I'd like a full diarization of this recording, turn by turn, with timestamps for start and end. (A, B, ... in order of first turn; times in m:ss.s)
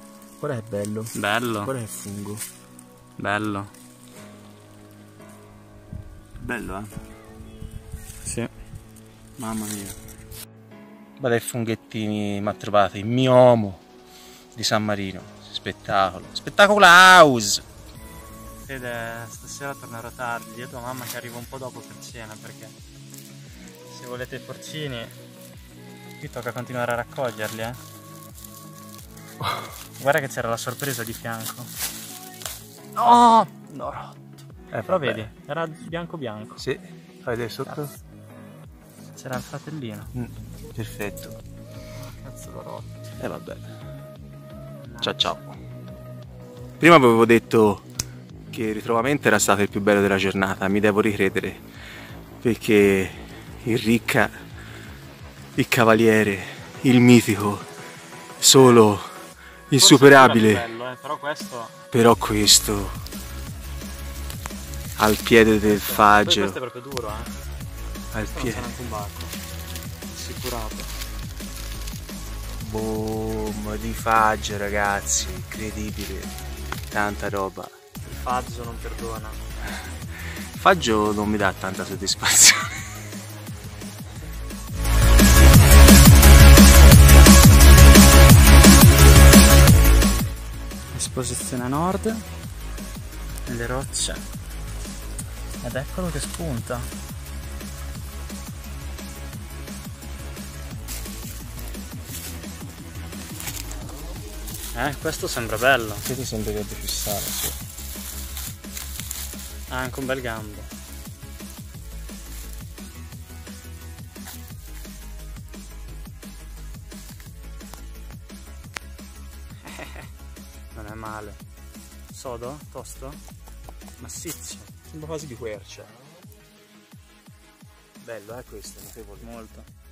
0:00.4-0:02.4 A
0:01.1-0:01.7 B
0:03.2-0:03.7 B
0:06.4-0:07.0 A
0:08.2-0:08.5 B
0:09.4-0:10.0 A
0:11.2-0:13.8 A
0:14.5-0:17.6 A
0:18.6-0:22.7 B
0:23.9-0:25.2 B
0:26.2-0:27.8 B
0:30.0-0:31.7 B
0:32.9-0:36.6 B
0:34.7-0:35.3 A
0:36.6-0:37.9 A
0:39.1-0:40.1 B
0:40.1-0:41.4 A
0:42.0-0:43.0 B
0:43.2-0:43.7 A
0:44.8-0:45.4 B
0:45.0-0:45.5 A
0:46.8-0:47.8 A
0:48.5-0:51.6 A
0:52.4-0:54.3 A
0:55.6-0:57.7 A
0:58.4-0:59.1 A
0:58.5-0:58.8 B
0:59.7-1:00.7 A
0:59.8-1:01.8 B
1:01.9-1:03.0 A
1:05.0-1:06.6 A
1:05.6-1:07.3 B
1:08.1-1:08.7 A
1:08.3-1:09.4 B
1:10.1-1:10.9 B
1:12.6-1:16.4 A
1:16.9-1:17.8 A
1:18.0-1:19.4 B
1:20.5-1:22.8 A
1:30.9-1:32.2 B
1:33.4-1:34.2 B
1:35.6-1:36.9 B
1:44.7-1:46.0 B
1:46.0-1:47.6 A
1:49.7-1:50.7 B
1:59.6-2:00.1 B
2:00.7-2:01.4 B
2:02.1-2:03.2 B
2:04.0-2:04.8 B
2:04.9-2:05.9 A
2:08.0-2:09.4 A
2:09.2-2:09.7 B